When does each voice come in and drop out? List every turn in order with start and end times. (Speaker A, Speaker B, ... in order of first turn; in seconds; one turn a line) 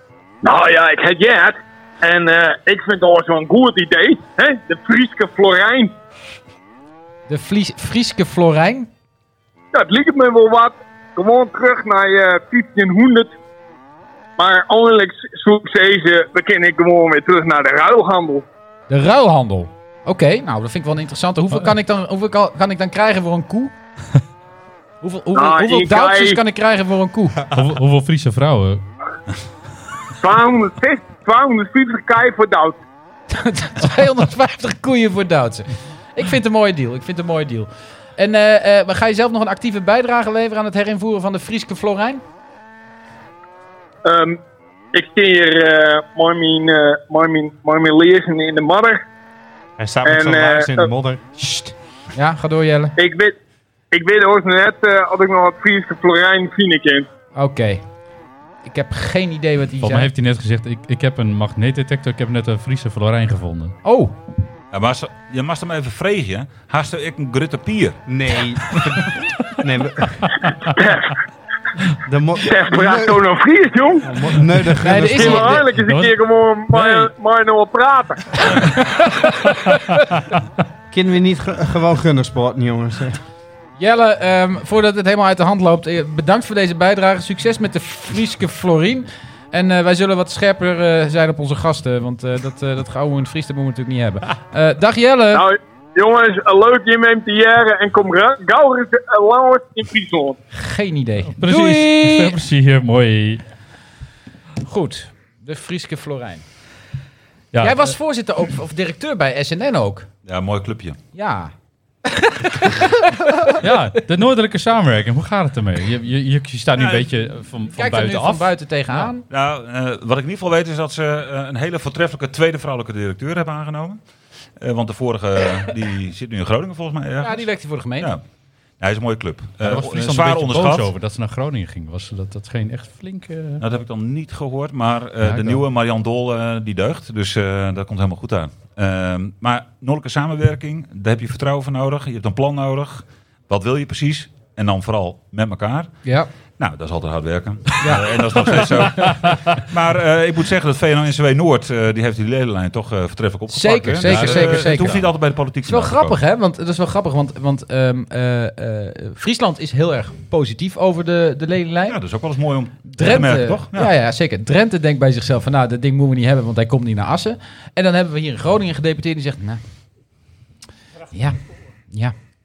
Speaker A: 0.4-6.0
Speaker B: 7.3-8.9
Speaker A: 9.7-13.3
Speaker A: 14.4-18.5
Speaker B: 18.9-23.7
Speaker B: 25.0-27.4
Speaker A: 25.4-26.4
Speaker C: 27.5-28.8
Speaker A: 30.2-32.8
Speaker B: 33.3-42.2
Speaker A: 44.0-44.4
Speaker A: 44.9-49.0
Speaker D: 49.8-51.2
Speaker A: 50.0-50.9
Speaker B: 51.4-52.9
Speaker A: 53.0-53.4
Speaker A: 53.9-57.1
Speaker B: 57.4-57.8
Speaker B: 58.6-60.1
Speaker C: 59.8-63.8
Speaker B: 63.8-64.1
Speaker E: 64.7-68.0
Speaker D: 68.1-70.5
Speaker A: 70.8-71.2
Speaker D: 72.0-73.2
Speaker A: 72.5-74.1
Speaker D: 74.0-75.6
Speaker B: 74.8-75.7
Speaker A: 75.1-78.5
Speaker C: 75.8-76.1
Speaker C: 76.7-77.1
Speaker D: 80.9-83.2
Speaker B: 83.8-95.5
Speaker A: 95.3-100.4
Speaker B: 100.5-102.4
Speaker C: 101.3-103.4
Speaker B: 104.6-106.4
Speaker C: 107.5-107.9
Speaker B: 107.6-110.1
Speaker E: 110.2-111.0
Speaker B: 111.2-111.5
Speaker B: 112.1-113.6
Speaker C: 113.5-119.1
Speaker B: 117.7-119.2
Speaker E: 119.3-124.0
Speaker E: 124.6-127.5
Speaker B: 127.2-128.1
Speaker E: 128.8-130.9
Speaker C: 129.6-133.6
Speaker E: 133.6-146.0
Speaker C: 135.2-135.6
Speaker E: 146.6-156.2
Speaker B: 147.8-148.5
Speaker B: 153.5-162.0
Speaker C: 154.0-154.9
Speaker E: 161.9-163.9
Speaker B: 162.8-169.6
Speaker B: 171.1-171.4